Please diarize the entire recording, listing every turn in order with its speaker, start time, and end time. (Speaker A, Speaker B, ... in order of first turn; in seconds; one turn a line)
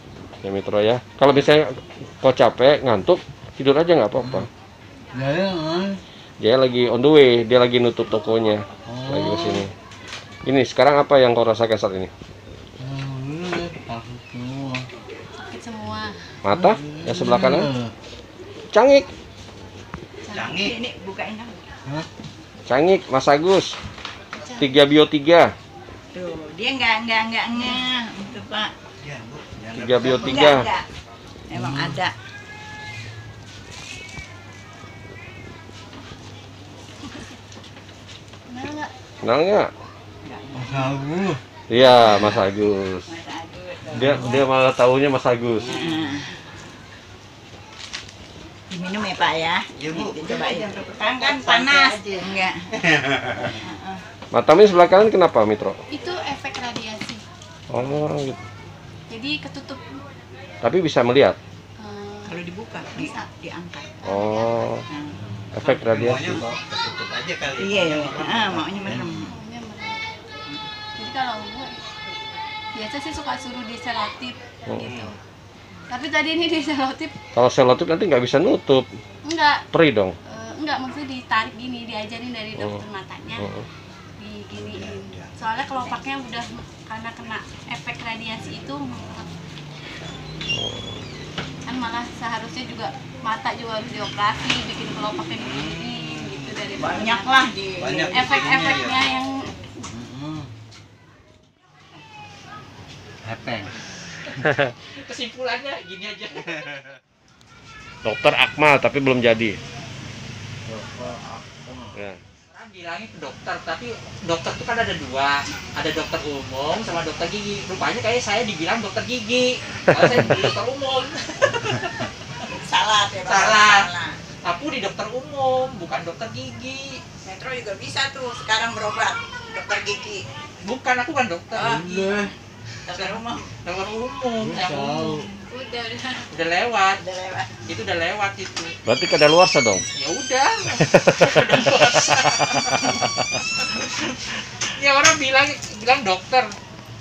Speaker A: 0.4-4.5
Speaker B: 4.2-4.5
Speaker B: 5.1-6.0
Speaker A: 6.4-9.7
Speaker B: 8.9-9.7
Speaker A: 10.4-12.1
Speaker B: 12.8-14.8
Speaker C: 15.4-16.2
Speaker A: 16.4-17.7
Speaker B: 16.5-17.9
Speaker A: 18.7-19.1
Speaker C: 20.2-20.7
Speaker D: 20.3-20.8
Speaker E: 20.5-21.7
Speaker A: 22.7-23.7
Speaker C: 24.3-24.8
Speaker A: 24.6-25.5
Speaker E: 26.1-28.7
Speaker D: 29.0-30.4
Speaker A: 29.7-30.7
Speaker E: 30.1-30.8
Speaker E: 31.5-32.1
Speaker B: 31.5-32.0
Speaker C: 38.5-38.9
Speaker A: 39.2-39.7
Speaker E: 40.2-40.9
Speaker B: 40.5-41.4
Speaker A: 41.7-43.1
Speaker E: 43.1-44.4
Speaker B: 43.9-44.4
Speaker A: 43.9-45.9
Speaker E: 45.7-46.3
Speaker E: 48.7-52.7
Speaker D: 49.8-53.5
Speaker E: 53.4-54.0
Speaker A: 54.3-55.8
Speaker C: 55.9-57.2
Speaker A: 57.7-58.4
Speaker C: 59.1-59.8
Speaker A: 60.6-61.4
Speaker C: 61.8-63.2
Speaker E: 62.2-64.0
Speaker C: 64.0-64.5
Speaker A: 64.0-64.8
Speaker E: 64.9-65.2
Speaker B: 65.2-65.6
Speaker A: 65.5-66.4
Speaker D: 65.7-68.8
Speaker E: 67.6-69.3
Speaker B: 68.8-69.3
Speaker C: 68.9-70.0
Speaker C: 71.0-71.8
Speaker C: 72.7-75.2
Speaker C: 75.9-77.1
Speaker A: 77.3-78.9
Speaker C: 79.2-79.7
Speaker A: 79.7-80.1
Speaker C: 80.2-83.5
Speaker A: 83.4-83.7
Speaker C: 84.2-89.3
Speaker D: 84.5-85.3
Speaker A: 90.5-91.0
Speaker C: 91.7-97.5
Speaker D: 95.5-96.5
Speaker E: 96.8-98.3
Speaker D: 97.8-99.0
Speaker C: 98.0-99.5
Speaker B: 99.9-100.5
Speaker B: 103.2-103.7
Speaker A: 104.4-104.7
Speaker F: 104.8-106.8
Speaker A: 108.0-109.6
Speaker B: 110.7-112.0
Speaker A: 111.9-112.2
Speaker F: 112.5-122.1
Speaker A: 119.9-120.3
Speaker E: 122.5-124.2
Speaker F: 123.2-123.9
Speaker F: 124.4-127.0
Speaker E: 127.2-130.2
Speaker F: 130.6-131.8
Speaker E: 131.6-132.3
Speaker B: 131.6-132.3
Speaker E: 132.8-133.5
Speaker F: 133.6-135.1
Speaker B: 134.4-135.3
Speaker C: 134.8-136.3
Speaker F: 136.3-137.0
Speaker E: 137.0-137.6
Speaker F: 137.6-138.7
Speaker A: 138.8-139.8
Speaker F: 139.9-146.5
Speaker A: 140.8-143.1